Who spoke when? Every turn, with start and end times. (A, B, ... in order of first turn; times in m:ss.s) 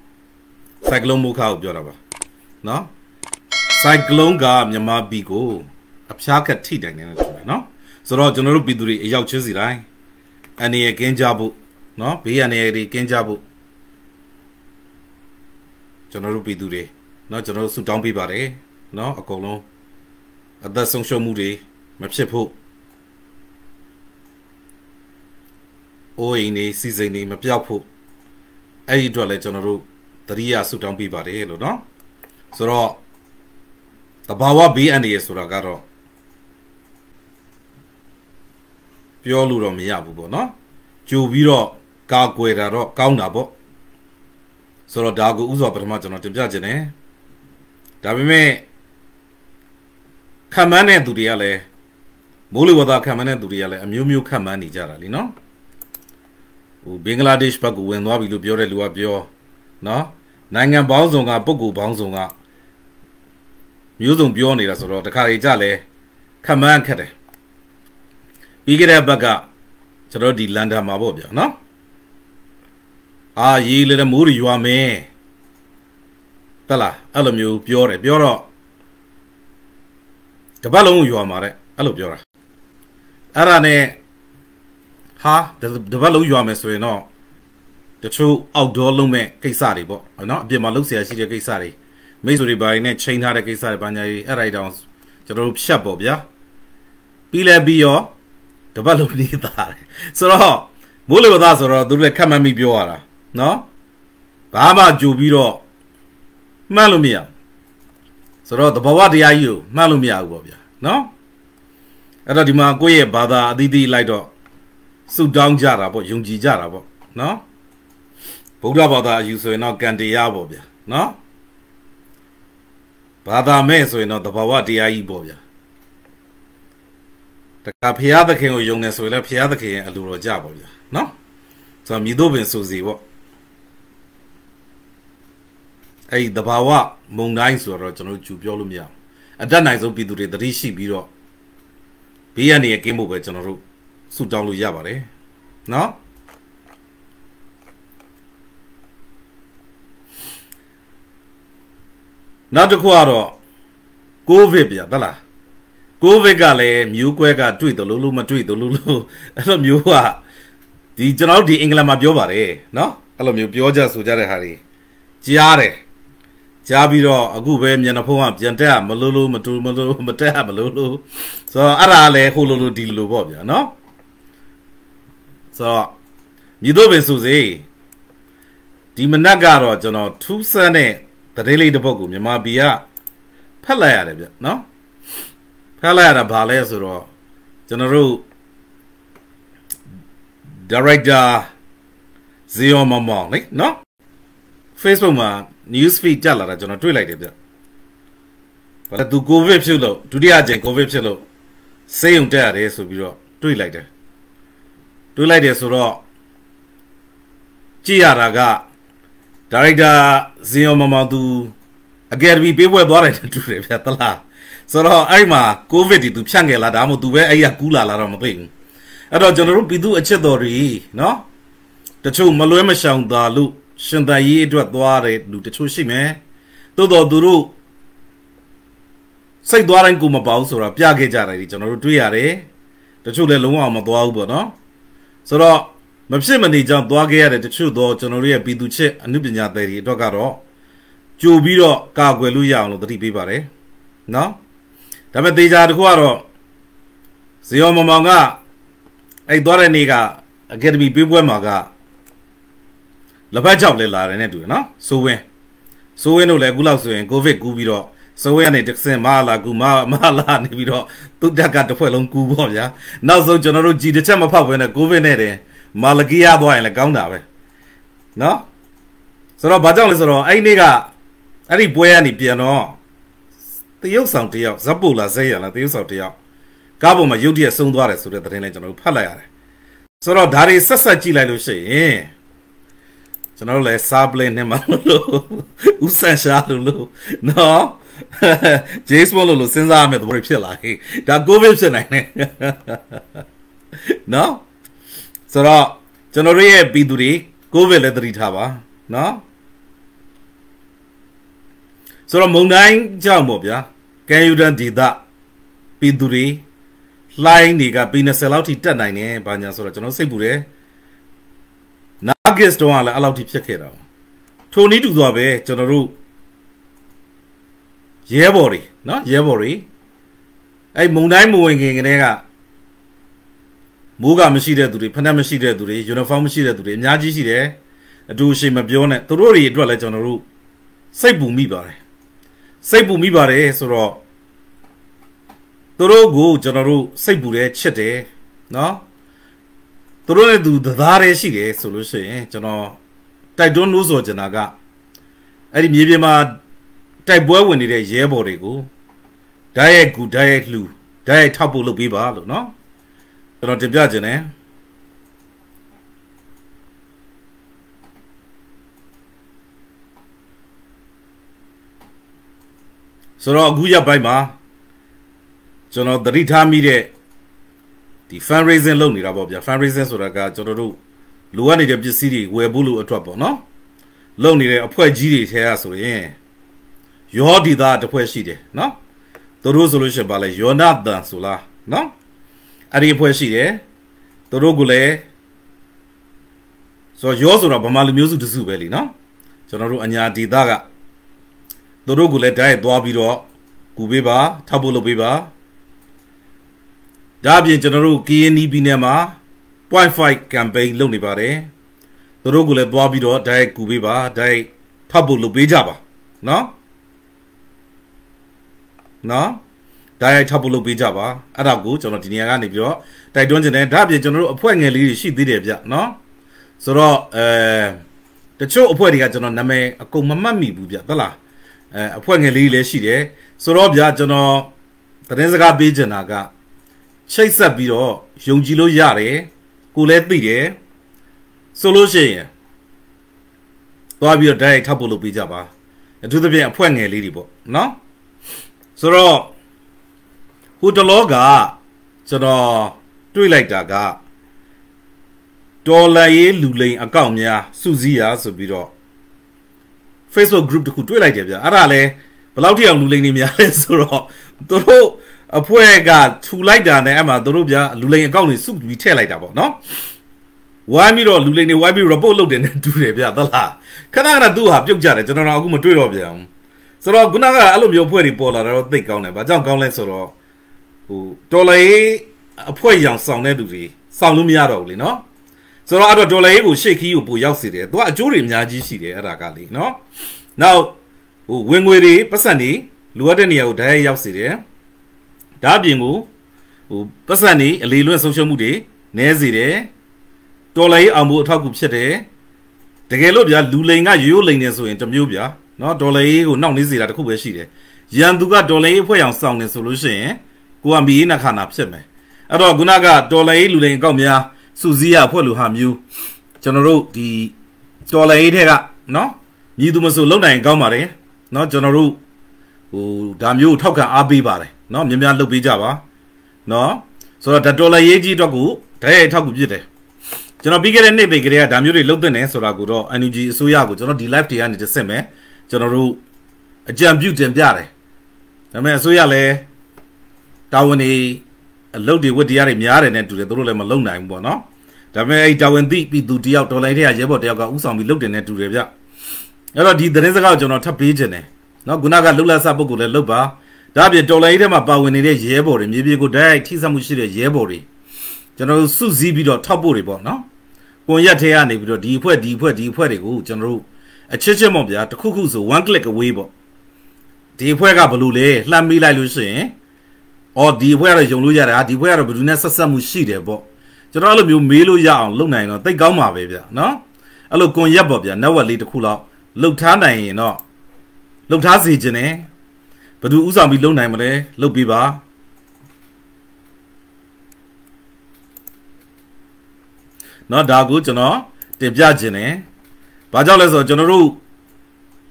0:00.8-0:02.0 A
0:02.6-0:02.9 A
0:03.7-0:09.9 A
0:10.6-0:13.4 A
0:16.1-0:19.6 A
0:20.6-0:22.5 A
0:26.2-0:27.9 A
0:28.9-0:31.8 A
0:32.5-0:33.0 A
0:34.3-0:35.8 A
0:39.2-0:40.5 A
0:41.1-0:43.5 A
0:44.9-0:46.9 A
0:48.0-0:48.7 A
0:50.5-0:51.7 A
0:52.5-0:55.3 A
0:56.8-0:59.3 A
0:59.8-1:02.3 A
1:04.0-1:05.8 A
1:06.4-1:07.1 A
1:08.7-1:09.5 A
1:10.1-1:11.6 A
1:13.4-1:15.1 A
1:16.7-1:18.4 A
1:20.6-1:22.2 A
1:23.4-1:24.0 A
1:25.2-1:27.1 A
1:28.0-1:36.2 A
1:37.3-1:38.1 A
1:38.7-1:43.7 A
1:44.5-1:45.6 A
1:46.7-1:47.3 A
1:48.4-1:51.1 A
1:52.3-1:54.3 A
1:55.1-1:57.4 A
1:58.6-2:01.2 A
2:03.2-2:05.4 A
2:07.6-2:11.1 A
2:11.8-2:13.0 A
2:16.1-2:21.1 A
2:22.4-2:25.1 A
2:25.7-2:26.0 A
2:32.5-2:33.4 A
2:34.3-2:35.2 A
2:36.0-2:40.2 A
2:41.0-2:44.6 A
2:45.2-2:45.8 A
2:46.6-2:53.7 A
2:55.5-2:55.9 A
2:56.6-2:57.7 A
2:59.0-3:02.8 A
3:03.6-3:04.6 A
3:05.8-3:07.1 A
3:07.7-3:08.2 A
3:10.6-3:11.5 A
3:12.5-3:13.8 A
3:14.8-3:17.3 A
3:18.9-3:21.2 A
3:21.9-3:23.9 A
3:25.2-3:26.0 A
3:27.8-3:28.6 A
3:29.5-3:31.5 A
3:32.1-3:38.5 A
3:39.1-3:41.2 A
3:42.0-3:46.2 A
3:46.8-3:47.5 A
3:49.4-3:52.5 A
3:53.0-3:54.6 A
3:55.2-4:00.4 A
4:01.2-4:03.5 A
4:04.1-4:04.4 A
4:05.1-4:06.2 A
4:07.4-4:08.4 A
4:09.3-4:11.7 A
4:13.3-4:15.2 A
4:16.0-4:27.2 A
4:28.2-4:28.5 A
4:29.4-4:30.9 A
4:31.5-4:32.8 A
4:33.8-4:36.2 A
4:36.8-4:39.3 A
4:40.0-4:42.1 A
4:43.4-4:53.2 A
4:53.9-4:54.4 A
4:55.3-4:59.2 A
5:02.1-5:05.0 A
5:05.8-5:06.4 A
5:07.2-5:10.5 A
5:12.0-5:13.8 A
5:14.5-5:16.0 A
5:18.1-5:19.7 A
5:20.8-5:22.2 A
5:24.0-5:27.6 A
5:28.1-5:30.2 A
5:30.9-5:31.8 A
5:32.6-5:34.0 A
5:35.8-5:38.8 A
5:40.1-5:42.8 A
5:43.4-5:44.6 A
5:45.5-5:46.4 A
5:47.1-5:48.7 A
5:49.5-5:52.5 A
5:53.4-5:54.3 A
6:03.2-6:04.3 A
6:05.7-6:06.9 A
6:08.1-6:10.8 A
6:11.3-6:13.4 A
6:14.2-6:16.2 A
6:17.1-6:18.8 A
6:19.4-6:21.9 A
6:22.7-6:23.6 A
6:24.3-6:25.1 A
6:27.0-6:28.9 A
6:29.5-6:30.6 A
6:31.8-6:35.3 A
6:37.2-6:39.2 A
6:39.7-6:41.5 A
6:42.2-6:46.5 A
6:49.0-6:49.4 A
6:50.0-6:56.0 A
6:56.6-6:57.8 A
6:58.4-7:01.2 A
7:01.7-7:04.5 A
7:05.1-7:06.3 A
7:07.1-7:10.6 A
7:11.5-7:12.3 A
7:14.0-7:15.5 A
7:16.0-7:17.8 A
7:18.8-7:19.3 A
7:20.6-7:24.0 A
7:25.6-7:28.7 A
7:30.1-7:39.6 A
7:40.7-7:46.3 A
7:46.8-7:50.2 A
7:50.9-7:55.0 A
7:55.7-7:59.8 A
8:00.4-8:00.8 A
8:01.3-8:04.4 A
8:05.4-8:06.1 A
8:06.7-8:09.7 A
8:10.5-8:12.1 A
8:12.9-8:25.8 A
8:26.4-8:27.3 A
8:27.9-8:32.0 A
8:32.7-8:35.8 A
8:36.5-8:39.7 A
8:40.4-8:46.0 A
8:46.7-8:47.7 A
8:48.5-8:49.4 A
8:50.5-8:58.7 A
8:59.5-9:07.7 A
9:08.4-9:10.2 A
9:10.9-9:16.3 A
9:17.4-9:19.5 A
9:20.4-9:30.4 A
9:31.3-9:32.3 A
9:33.0-9:35.0 A
9:40.3-9:42.4 A
9:43.1-9:44.2 A